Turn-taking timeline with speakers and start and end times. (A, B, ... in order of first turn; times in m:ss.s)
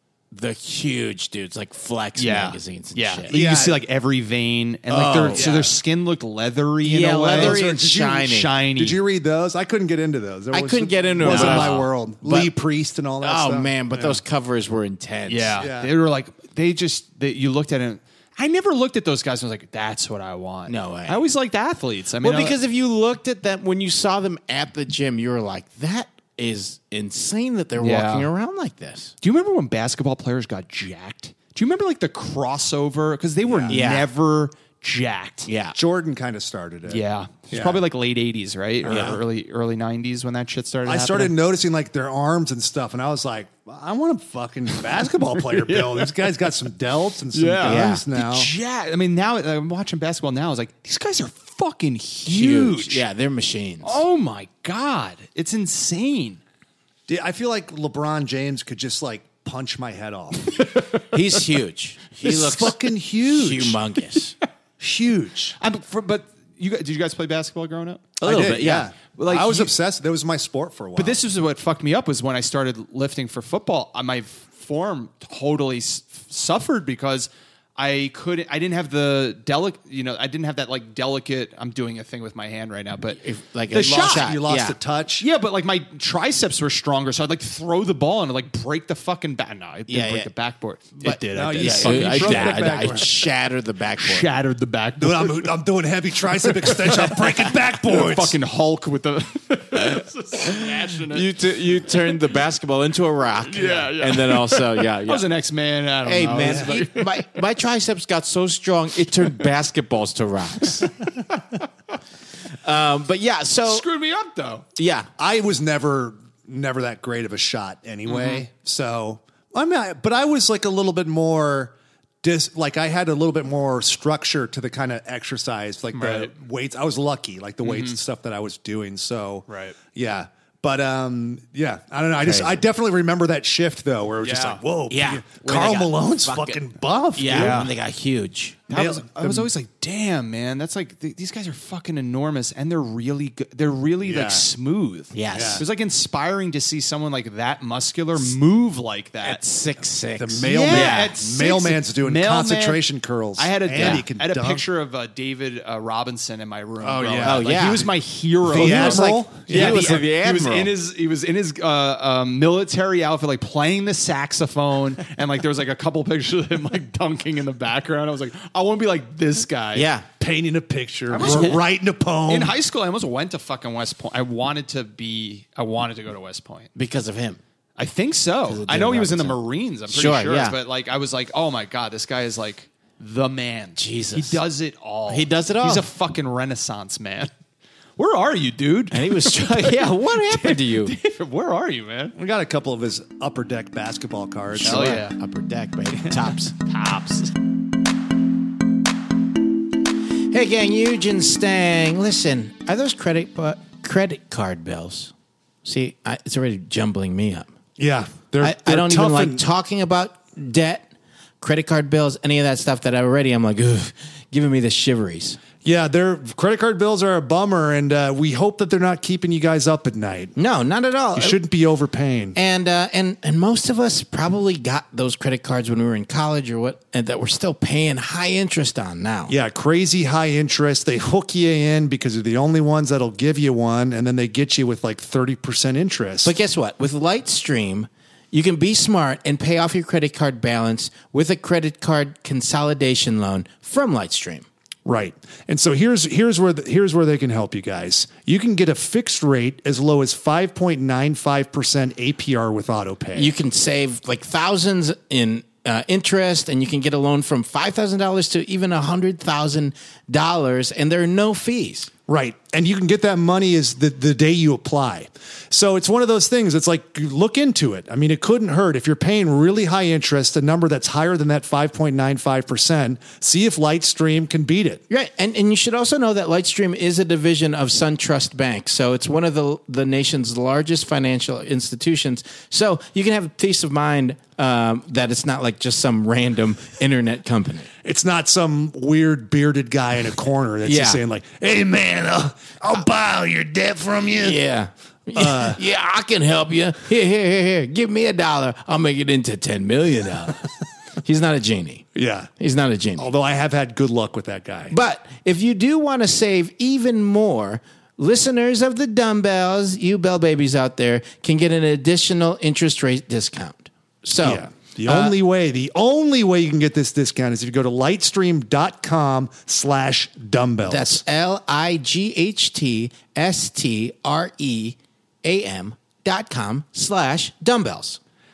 0:00.3-0:03.4 A
0:02.2-0:09.0 B
0:03.3-0:03.8 C
0:04.9-0:05.7 A
0:06.8-0:08.5 A
0:07.3-0:14.2 C
0:10.5-0:12.5 A
0:11.2-0:11.8 B
0:13.2-0:15.6 A
0:15.3-0:22.6 B
0:15.6-0:15.9 C
0:20.7-0:21.2 A
0:22.2-0:29.1 A
0:27.8-0:28.3 B
0:29.2-0:35.5 B
0:33.4-0:33.8 C
0:33.7-0:34.1 A
0:35.4-0:35.8 A
0:35.7-0:37.8 C
0:36.9-0:41.3 B
0:38.8-0:39.2 C
0:38.9-0:39.2 A
0:40.8-0:48.5 C
0:45.5-0:46.1 B
0:47.3-0:53.0 B
0:47.6-0:48.0 A
0:52.3-0:54.0 A
0:53.8-0:56.4 B
0:57.1-1:00.6 C
1:00.5-1:01.6 B
1:01.1-1:04.3 A
1:02.2-1:03.8 C
1:02.3-1:02.7 B
1:04.8-1:05.6 C
1:05.6-1:08.2 B
1:08.2-1:08.9 A
1:08.2-1:11.2 C
1:09.1-1:09.7 B
1:11.0-1:24.3 B
1:23.2-1:24.8 A
1:23.7-1:25.3 C
1:25.2-1:33.0 B
1:29.9-1:30.3 A
1:31.0-1:34.3 A
1:31.3-1:33.1 C
1:34.0-1:35.5 B
1:35.0-1:38.4 C
1:36.5-1:41.3 B
1:40.9-1:45.3 A
1:43.5-1:47.3 B
1:46.0-1:50.9 A
1:46.4-1:46.8 C
1:50.8-1:51.6 B
1:52.6-1:53.8 A
1:53.7-1:54.6 B
1:54.8-1:55.1 A
1:55.2-2:17.7 C
1:58.1-1:58.4 B
2:05.9-2:06.3 B
2:07.6-2:08.0 B
2:09.5-2:09.8 B
2:12.2-2:12.6 A
2:14.2-2:14.6 B
2:14.9-2:16.6 A
2:17.2-2:18.6 A
2:17.3-2:17.7 B
2:18.7-2:29.4 B
2:18.7-2:19.5 C
2:24.0-2:24.5 C
2:25.1-2:25.6 A
2:25.3-2:25.6 C
2:29.2-2:31.1 A
2:30.2-2:34.6 C
2:30.4-2:32.8 B
2:33.4-2:49.9 B
2:36.8-2:37.8 A
2:36.9-2:37.5 C
2:38.4-2:40.0 C
2:38.5-2:40.7 A
2:49.7-2:50.1 A
2:50.2-2:52.6 C
2:51.1-2:51.7 B
2:51.2-2:51.6 A
2:52.3-2:56.7 B
2:56.7-2:57.4 A
2:57.8-3:07.3 B
2:58.5-2:59.4 A
2:59.9-3:00.6 A
3:03.8-3:04.4 A
3:05.1-3:05.9 A
3:08.0-3:12.2 B
3:08.9-3:11.0 A
3:12.2-3:15.0 C
3:14.6-3:16.5 A
3:14.6-3:15.2 B
3:16.5-3:17.3 B
3:20.3-3:25.1 A
3:25.6-3:27.5 A
3:27.8-3:29.4 C
3:28.4-3:30.9 A
3:31.4-3:35.4 A
3:35.6-3:40.3 C
3:40.4-3:41.4 A
3:41.1-3:42.4 C
3:42.3-3:49.3 A
3:49.3-3:56.3 C
3:56.2-4:04.4 A
4:04.9-4:13.3 C
4:13.1-4:21.9 A
4:22.1-4:34.8 C
4:34.9-4:47.7 A
4:47.8-4:54.4 C
4:50.6-4:51.0 A
4:54.2-5:00.5 A
4:55.2-4:55.6 C
5:01.0-5:01.8 A
5:02.0-5:02.3 C
5:02.4-5:03.1 A
5:03.0-5:04.7 C
5:04.7-5:15.1 A
5:14.2-5:21.0 C
5:20.7-5:28.0 A